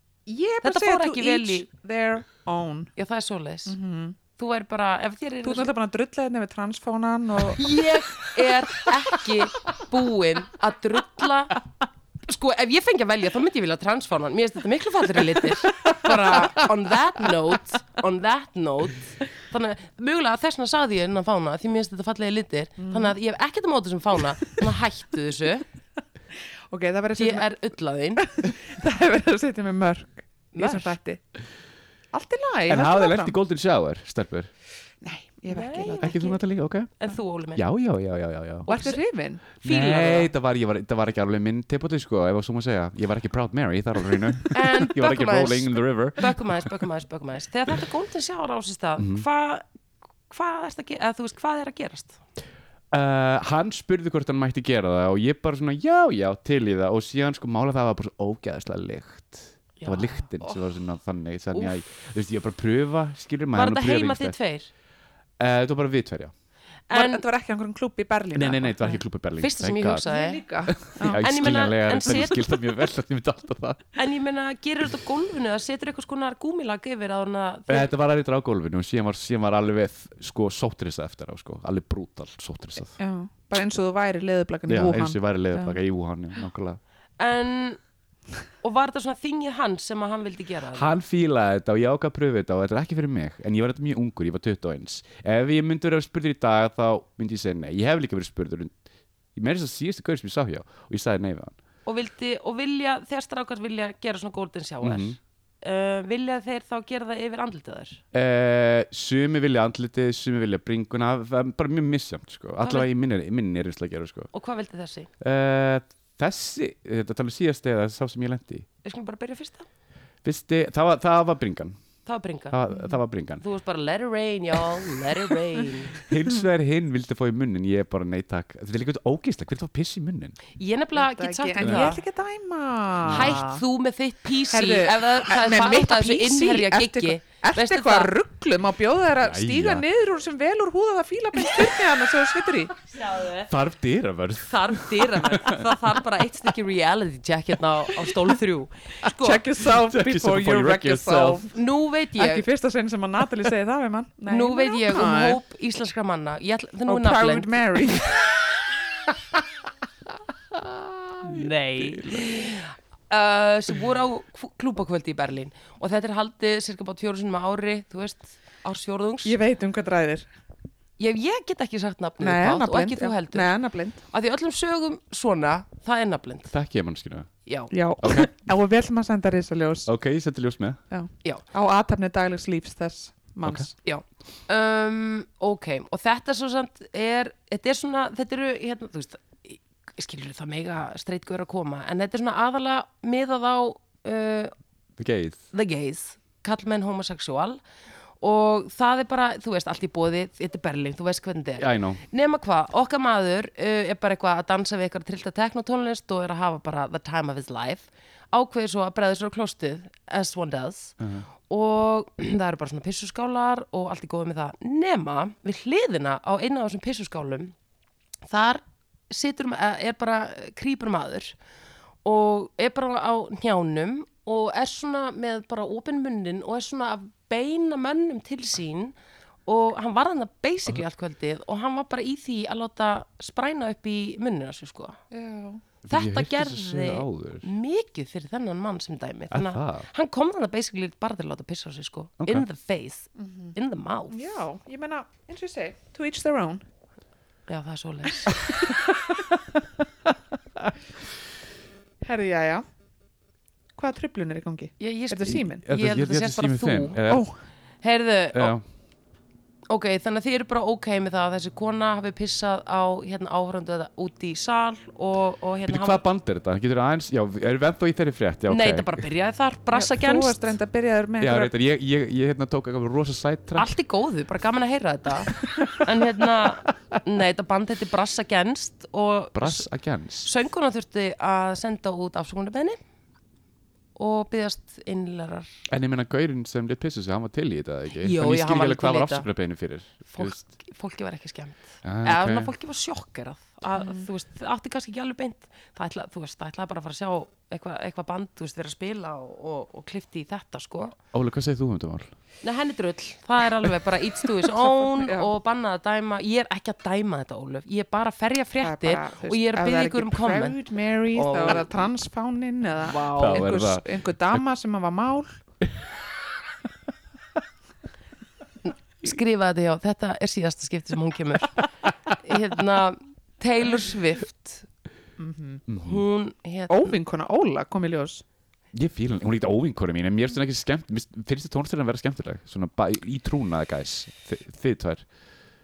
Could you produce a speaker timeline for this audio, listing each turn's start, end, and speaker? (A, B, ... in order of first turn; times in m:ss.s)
0:00.3-0:02.9 A
0:00.6-0:01.6 B
0:03.0-0:03.8 B
0:03.7-0:04.2 A
0:04.4-0:05.7 B
0:05.4-0:08.8 A
0:07.5-0:11.6 B
0:12.2-0:25.6 B
0:15.7-0:16.7 A
0:22.8-0:23.1 A
0:26.7-0:27.5 A
0:27.2-0:28.2 B
0:28.2-0:31.2 A
0:30.5-0:30.9 B
0:32.1-0:33.3 A
0:32.7-0:34.5 C
0:35.0-0:36.2 A
0:35.5-0:36.4 B
0:36.0-0:36.9 C
0:37.0-0:37.6 B
0:37.5-0:38.7 C
0:38.7-0:39.4 A
0:38.7-0:39.0 B
0:39.6-0:40.3 B
0:39.6-0:46.4 C
0:44.5-0:49.6 B
0:49.0-0:49.2 C
0:50.3-0:52.2 B
0:52.9-1:04.4 C
0:59.8-1:00.5 B
1:03.5-1:04.7 B
1:05.4-1:06.3 C
1:06.9-1:07.2 B
1:06.9-1:09.0 A
1:08.3-1:10.0 C
1:09.4-1:10.4 B
1:10.0-1:11.3 A
1:10.7-1:13.8 C
1:11.1-1:12.6 B
1:14.0-1:17.9 B
1:17.7-1:23.0 C
1:23.0-1:25.8 A
1:24.7-1:26.8 C
1:27.2-1:27.8 B
1:28.6-1:30.9 B
1:30.7-1:38.7 C
1:39.3-1:41.6 C
1:41.8-1:48.0 B
1:44.8-1:45.2 C
1:48.1-1:54.3 C
1:52.6-1:52.9 B
1:54.3-1:55.1 B
1:55.2-1:58.6 C
1:58.8-1:59.7 B
2:00.2-2:01.8 C
2:02.0-2:02.6 B
2:02.5-2:03.4 C
2:03.4-2:06.0 B
2:06.0-2:10.4 C
2:10.6-2:12.0 B
2:11.0-2:13.6 A
2:11.6-2:11.9 C
2:13.0-2:13.4 C
2:13.1-2:18.1 B
2:14.5-2:22.8 A
2:19.2-2:19.8 C
2:22.9-2:23.5 B
2:23.0-2:25.7 C
2:24.4-2:29.4 B
2:29.2-2:31.5 A
2:29.6-2:31.5 C
2:31.5-2:32.4 B
2:32.2-2:35.4 A
2:34.3-2:37.5 B
2:36.9-2:38.3 A
2:41.2-2:42.3 C
2:41.2-2:49.4 B
2:49.2-2:50.3 A
2:51.0-2:53.5 B
2:52.2-2:54.0 A
2:54.1-2:56.5 B
2:56.5-2:57.3 C
2:57.4-2:57.7 B
2:57.7-2:59.9 A
2:58.0-2:58.3 C
2:59.9-3:00.8 C
3:00.9-3:03.7 A
3:03.8-3:14.5 B
3:15.0-3:15.4 C
3:15.5-3:17.6 B
3:18.2-3:37.5 B
3:21.6-3:22.0 C
3:31.0-3:31.3 C
3:38.3-3:41.4 B
3:42.0-3:48.9 B
3:49.5-3:55.0 B
3:55.1-3:55.6 A
3:55.8-3:57.5 C
3:55.9-4:04.3 B
3:59.3-3:59.9 C
4:02.2-4:02.4 C
4:03.2-4:03.6 A
4:04.1-4:06.6 A
4:07.5-4:08.4 B
4:08.6-4:09.2 A
4:12.0-4:12.6 A
4:13.8-4:15.6 A
4:14.8-4:17.0 B
4:15.2-4:17.3 C
4:17.1-4:17.3 A
4:17.8-4:18.6 B
4:18.3-4:18.6 C
4:19.7-4:26.0 B
4:25.7-4:29.0 C
4:28.5-4:30.5 B
4:29.7-4:31.5 A
4:31.2-4:33.7 C
4:33.6-4:39.7 B
4:35.5-4:35.9 C
4:39.3-4:40.3 C
4:40.2-4:42.8 B
4:44.0-4:45.5 B
4:45.7-4:50.4 C
4:48.0-4:49.3 B
4:50.1-5:01.0 B
4:51.8-4:52.5 C
4:53.8-4:54.1 A
5:01.1-5:02.1 C
5:02.4-5:10.6 B
5:04.8-5:05.3 A
5:08.6-5:15.4 A
5:11.1-5:11.8 B
5:12.8-5:13.5 B
5:13.2-5:14.4 C
5:18.6-5:24.7 B
5:25.2-5:25.6 A
5:25.7-5:26.0 C
5:25.8-5:27.0 B
5:26.7-5:28.2 A
5:28.7-5:35.0 C